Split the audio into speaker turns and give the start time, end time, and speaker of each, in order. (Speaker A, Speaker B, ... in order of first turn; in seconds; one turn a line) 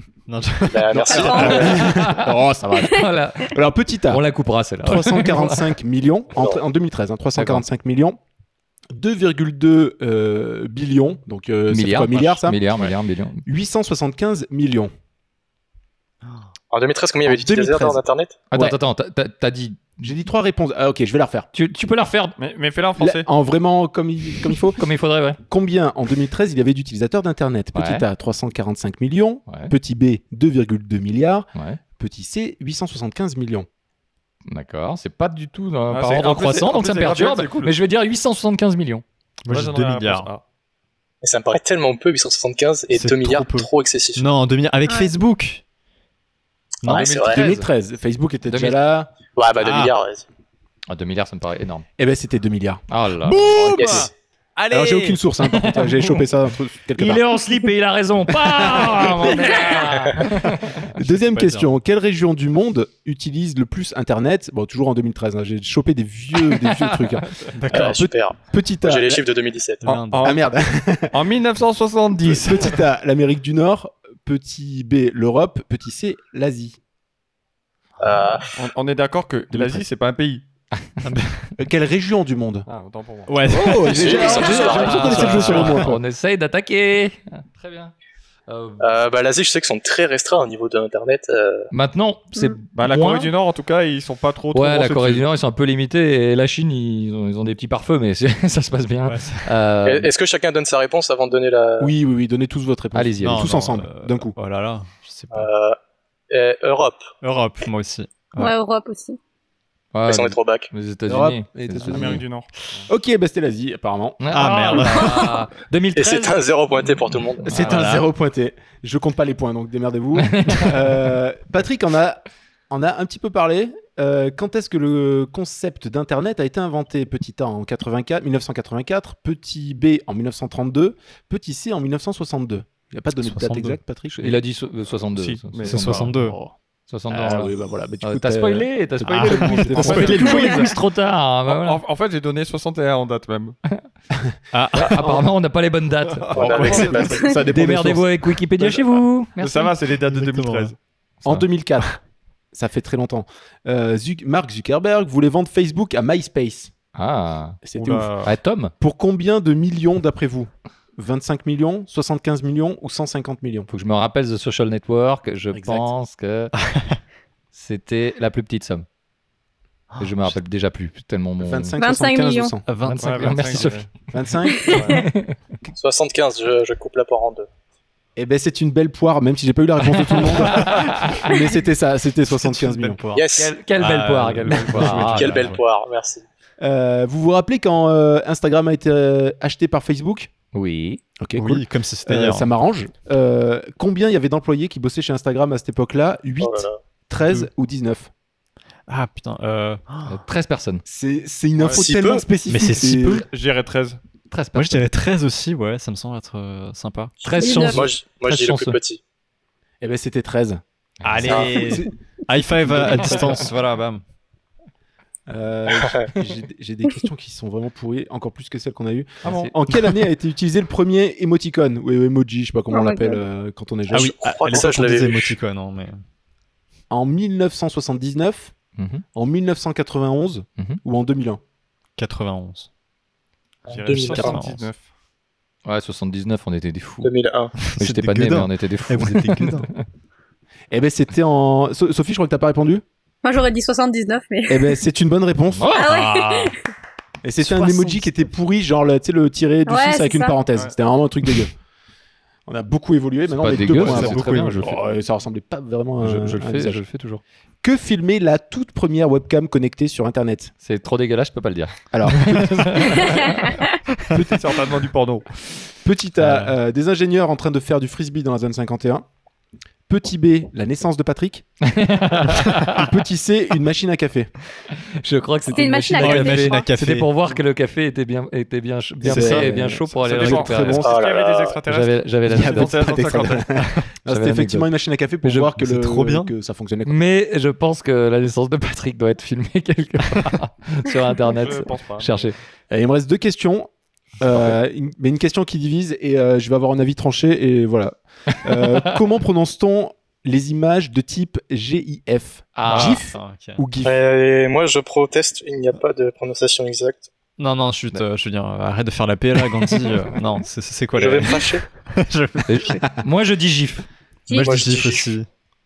Speaker A: 0.3-2.2
Speaker B: 0.7-1.9
Speaker C: 0.9-4.2
Speaker D: 1.1-1.5
Speaker E: 1.3-3.6
Speaker E: 4.1-5.7
Speaker C: 4.8-8.2
Speaker B: 6.4-6.6
Speaker E: 7.4-7.6
Speaker C: 8.9-12.6
Speaker E: 11.7-13.4
Speaker C: 13.5-14.9
Speaker B: 16.7-18.4
Speaker C: 17.3-18.8
Speaker E: 18.5-20.0
Speaker C: 20.0-21.5
Speaker E: 21.5-22.4
Speaker F: 22.4-23.3
Speaker C: 23.0-24.8
Speaker E: 24.8-25.4
Speaker C: 25.4-31.5
Speaker E: 27.7-28.1
Speaker E: 29.5-29.7
Speaker C: 32.0-33.7
Speaker E: 34.5-39.0
Speaker F: 35.9-37.8
Speaker A: 39.5-40.3
Speaker F: 39.5-40.4
Speaker B: 41.2-44.3
Speaker A: 42.9-45.6
Speaker D: 44.9-45.1
Speaker E: 46.9-47.7
Speaker B: 46.9-47.4
Speaker C: 47.2-49.1
Speaker E: 48.5-48.8
Speaker B: 49.3-50.2
Speaker A: 49.6-50.0
Speaker E: 50.9-51.9
Speaker C: 52.0-54.1
Speaker E: 52.9-53.6
Speaker A: 53.3-55.2
Speaker B: 53.7-54.1
Speaker C: 54.7-57.2
Speaker E: 55.5-56.1
Speaker E: 57.0-60.8
Speaker C: 58.8-59.4
Speaker C: 61.0-69.2
Speaker A: 61.0-61.7
Speaker E: 66.6-67.0
Speaker A: 67.6-68.0
Speaker B: 67.7-70.0
Speaker A: 69.8-70.4
Speaker F: 69.8-70.5
Speaker C: 70.2-71.2
Speaker F: 71.1-72.8
Speaker C: 72.3-76.8
Speaker B: 78.0-78.5
Speaker F: 78.5-80.4
Speaker C: 79.5-79.8
Speaker A: 81.0-81.5
Speaker C: 81.6-82.7
Speaker F: 82.7-83.7
Speaker A: 83.3-86.0
Speaker C: 83.5-86.0
Speaker B: 83.9-85.5
Speaker E: 84.2-87.9
Speaker E: 88.5-88.9
Speaker B: 88.8-91.7
Speaker E: 91.7-93.3
Speaker F: 92.8-95.2
Speaker E: 94.5-100.1
Speaker A: 99.1-99.6
Speaker B: 99.8-101.9
Speaker C: 101.8-104.3
Speaker E: 103.0-103.5
Speaker A: 103.2-105.5
Speaker B: 105.3-105.8
Speaker B: 106.3-107.1
Speaker A: 107.2-108.5
Speaker D: 108.4-109.2
Speaker E: 109.9-112.2
Speaker B: 110.1-110.7
Speaker C: 111.1-112.2
Speaker F: 111.9-112.5
Speaker C: 112.9-114.2
Speaker E: 114.2-116.4
Speaker A: 114.3-115.4
Speaker B: 116.0-117.8
Speaker C: 117.5-134.4
Speaker E: 117.6-117.9
Speaker A: 117.6-118.0
Speaker E: 120.2-120.8
Speaker A: 133.2-133.8
Speaker E: 134.1-136.2
Speaker F: 135.2-136.4
Speaker A: 135.7-136.5
Speaker E: 136.9-141.8
Speaker C: 137.1-140.7
Speaker A: 139.1-140.7
Speaker F: 141.5-143.6
Speaker A: 144.5-145.2
Speaker E: 144.7-146.8
Speaker F: 146.1-147.0
Speaker B: 146.3-147.3
Speaker A: 146.4-147.2
Speaker C: 146.5-148.1
Speaker E: 147.5-149.7
Speaker F: 148.6-150.8
Speaker A: 150.1-150.7
Speaker C: 151.2-152.0
Speaker C: 152.5-156.7
Speaker E: 156.9-157.6
Speaker C: 157.6-158.2
Speaker A: 157.8-158.4
Speaker E: 158.2-158.7
Speaker C: 158.8-163.7
Speaker E: 163.7-166.5
Speaker C: 165.6-165.9
Speaker A: 166.7-167.0
Speaker E: 167.5-168.8
Speaker A: 170.0-170.3
Speaker E: 170.0-171.8
Speaker C: 171.4-172.6
Speaker D: 171.8-172.6
Speaker A: 172.7-173.8
Speaker E: 172.8-173.9
Speaker F: 173.0-173.9
Speaker C: 174.1-174.9
Speaker D: 174.6-174.9
Speaker F: 174.7-175.0
Speaker E: 174.9-175.3
Speaker B: 175.8-177.5
Speaker C: 178.2-183.0
Speaker A: 180.0-181.0
Speaker E: 180.5-181.3
Speaker A: 182.3-185.6
Speaker B: 183.1-183.5
Speaker E: 183.4-185.5
Speaker B: 185.0-186.2
Speaker C: 186.6-190.3
Speaker E: 190.5-191.0
Speaker C: 191.2-198.1
Speaker A: 191.4-192.5
Speaker B: 196.4-196.8
Speaker A: 197.2-197.5
Speaker A: 198.9-200.2
Speaker E: 200.1-200.8
Speaker C: 200.8-203.2
Speaker F: 201.6-201.8
Speaker B: 201.7-202.2
Speaker A: 202.5-203.2
Speaker F: 203.1-204.0
Speaker E: 204.3-204.8
Speaker A: 204.6-207.2
Speaker E: 207.2-208.8
Speaker D: 207.4-207.9
Speaker B: 207.6-209.0
Speaker C: 209.8-210.6
Speaker E: 211.0-211.4
Speaker A: 211.0-214.0
Speaker C: 211.2-213.4
Speaker B: 211.2-211.6
Speaker C: 215.3-224.1
Speaker E: 219.2-219.5
Speaker F: 219.3-219.5
Speaker D: 222.7-223.2
Speaker A: 223.9-226.0
Speaker B: 223.9-225.4
Speaker C: 226.9-228.5
Speaker E: 228.8-229.0
Speaker C: 229.2-231.4
Speaker A: 232.0-232.7
Speaker F: 233.7-234.8
Speaker B: 233.7-234.4
Speaker A: 234.2-234.6
Speaker E: 235.7-237.1
Speaker B: 237.0-237.5
Speaker A: 237.6-239.7
Speaker E: 237.8-239.8
Speaker C: 240.7-242.8
Speaker D: 243.2-244.8
Speaker C: 244.5-245.8
Speaker E: 245.5-245.9
Speaker D: 245.7-246.6
Speaker A: 245.8-246.6
Speaker C: 247.2-251.5
Speaker A: 247.4-248.1
Speaker D: 249.7-250.4
Speaker C: 252.5-256.8
Speaker E: 253.4-254.8
Speaker A: 253.6-254.8
Speaker E: 256.0-257.2
Speaker C: 257.6-260.5
Speaker E: 260.6-263.6
Speaker C: 261.9-263.0
Speaker D: 263.3-263.6
Speaker C: 264.1-264.4
Speaker F: 264.2-265.2
Speaker C: 265.8-269.1
Speaker A: 266.2-266.5
Speaker C: 269.9-271.4
Speaker E: 271.6-272.9
Speaker C: 272.5-274.3
Speaker E: 275.0-280.9
Speaker D: 275.5-276.7
Speaker A: 275.9-277.1
Speaker A: 279.0-279.6
Speaker C: 279.0-281.0
Speaker F: 280.0-283.5
Speaker B: 280.8-281.6
Speaker E: 281.7-283.3
Speaker C: 282.3-287.0
Speaker E: 284.1-284.7
Speaker E: 285.2-285.5
Speaker A: 285.6-286.3
Speaker E: 286.9-292.4
Speaker F: 291.2-292.3
Speaker C: 292.7-304.0
Speaker E: 298.6-298.9
Speaker E: 302.6-303.0
Speaker A: 302.7-303.6
Speaker B: 303.8-307.1
Speaker A: 307.4-312.9
Speaker B: 310.9-311.6
Speaker E: 312.5-313.9
Speaker D: 314.3-314.7
Speaker A: 314.3-315.3
Speaker B: 314.3-315.1